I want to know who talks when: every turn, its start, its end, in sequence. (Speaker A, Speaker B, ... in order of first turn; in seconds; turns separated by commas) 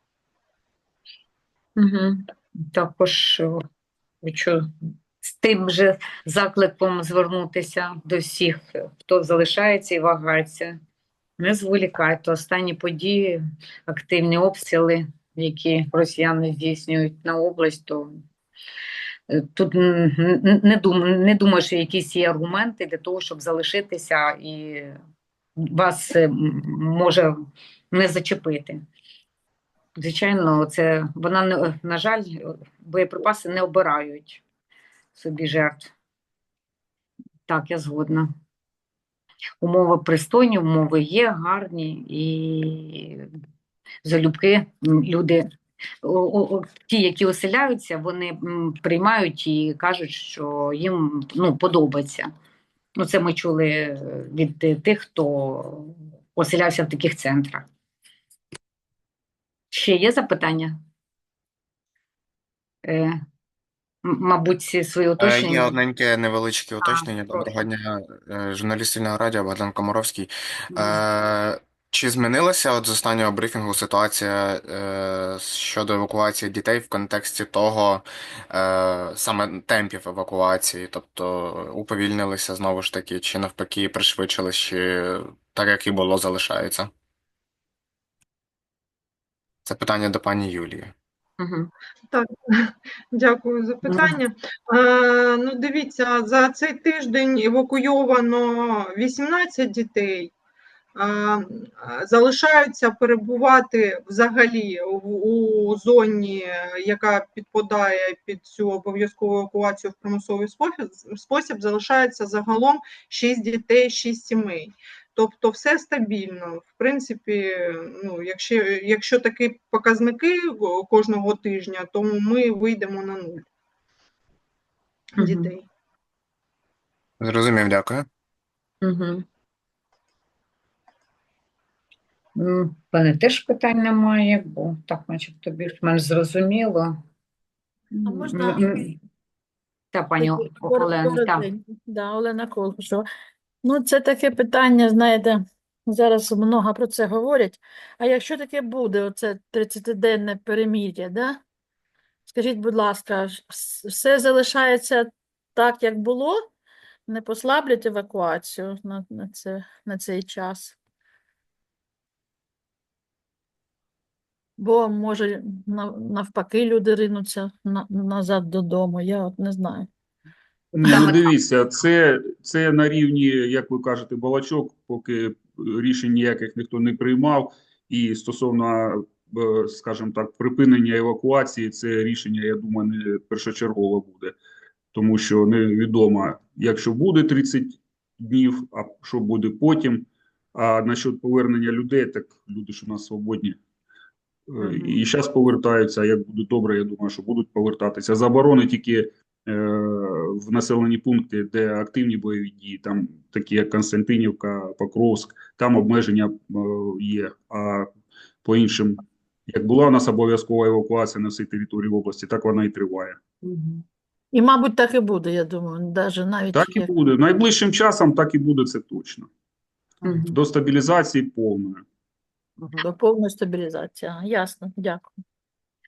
Speaker A: 1.8-3.5, Speaker A: 4.2-4.7, Speaker A: 5.2-10.8, Speaker A: 11.4-18.1, Speaker A: 19.3-24.9, Speaker A: 25.6-27.3, Speaker A: 27.9-28.8, Speaker A: 30.0-34.4, Speaker A: 35.1-35.9, Speaker A: 37.5-38.3, Speaker A: 39.6-43.3, Speaker A: 44.0-45.5, Speaker A: 46.0-52.3, Speaker A: 53.0-57.6, Speaker A: 59.7-60.8, Speaker A: 62.9-63.1, Speaker A: 64.0-65.8, Speaker B: 65.2-86.9, Speaker A: 66.8-67.6, Speaker A: 70.7-71.0, Speaker B: 89.7-90.9, Speaker A: 91.4-91.7, Speaker C: 92.1-100.3, Speaker A: 93.8-94.2, Speaker C: 101.0-123.4, Speaker C: 125.2-125.7, Speaker A: 125.2-125.5, Speaker B: 127.2-128.1, Speaker A: 128.8-129.2, Speaker A: 132.4-136.9, Speaker A: 137.9-139.0, Speaker D: 138.1-138.8, Speaker A: 139.9-141.5, Speaker D: 140.2-143.1, Speaker D: 143.6-151.4, Speaker D: 152.3-156.4, Speaker D: 157.1-160.8, Speaker D: 164.6-169.9, Speaker E: 170.7-184.4, Speaker A: 170.8-171.2, Speaker E: 184.9-193.6, Speaker E: 194.5-207.9, Speaker A: 194.6-195.0, Speaker E: 208.4-213.2, Speaker A: 213.4-213.8, Speaker D: 214.3-216.9, Speaker E: 216.5-219.3, Speaker A: 220.0-220.4, Speaker E: 220.1-221.8, Speaker D: 222.8-225.1